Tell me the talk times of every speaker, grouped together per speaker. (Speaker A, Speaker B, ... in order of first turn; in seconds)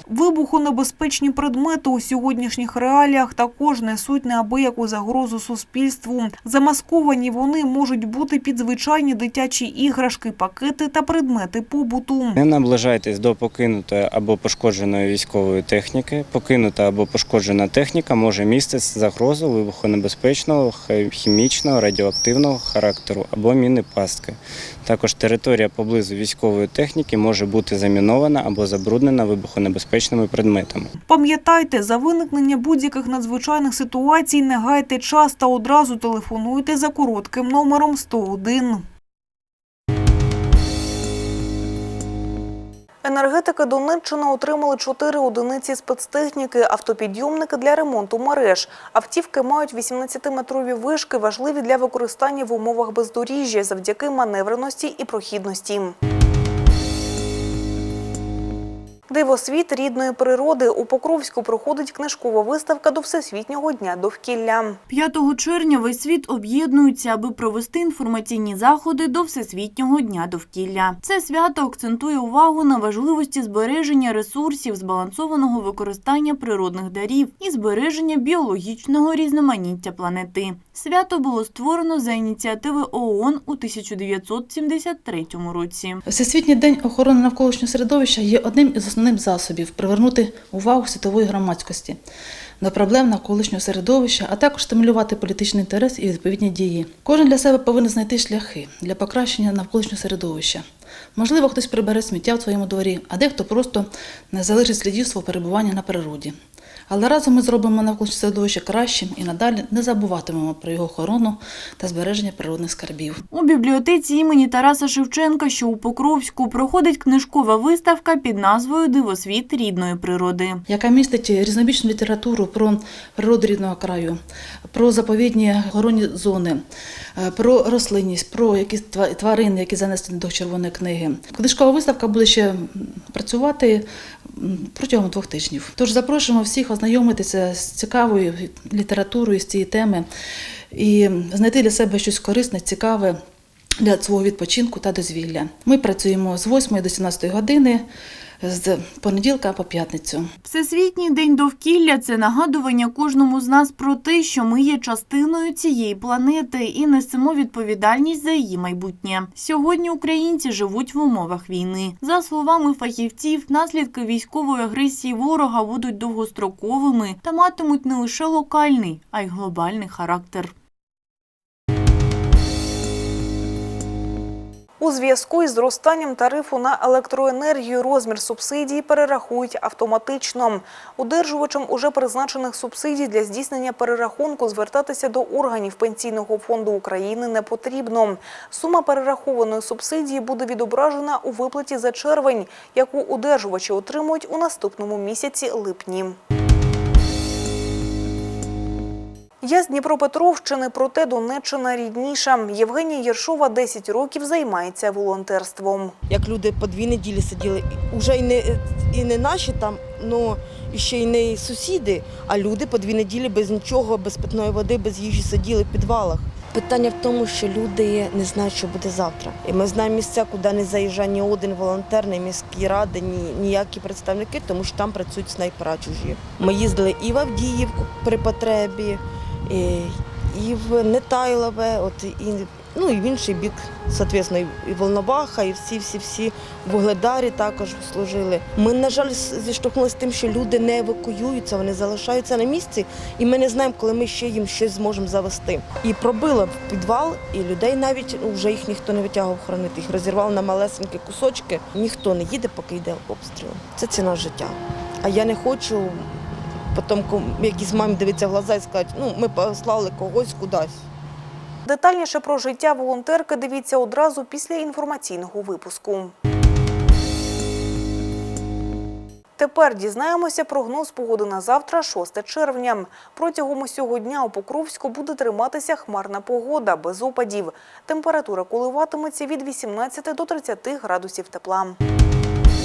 Speaker A: 0.1-12.4, 31.1-38.8, 43.0-56.0, 59.1-64.8, 174.8-196.2, 199.4-205.9, 261.7-266.1, 269.4-281.8
Speaker B: 12.3-30.9
Speaker C: 64.9-86.0, 113.3-120.6, 150.4-170.5
Speaker D: 86.1-92.0, 92.6-100.7, 101.2-106.4, 106.9-113.2, 120.7-124.2, 124.7-126.6, 127.2-140.1, 140.7-143.2, 143.8-147.9, 148.4-150.3
Speaker E: 206.1-256.1, 256.7-260.8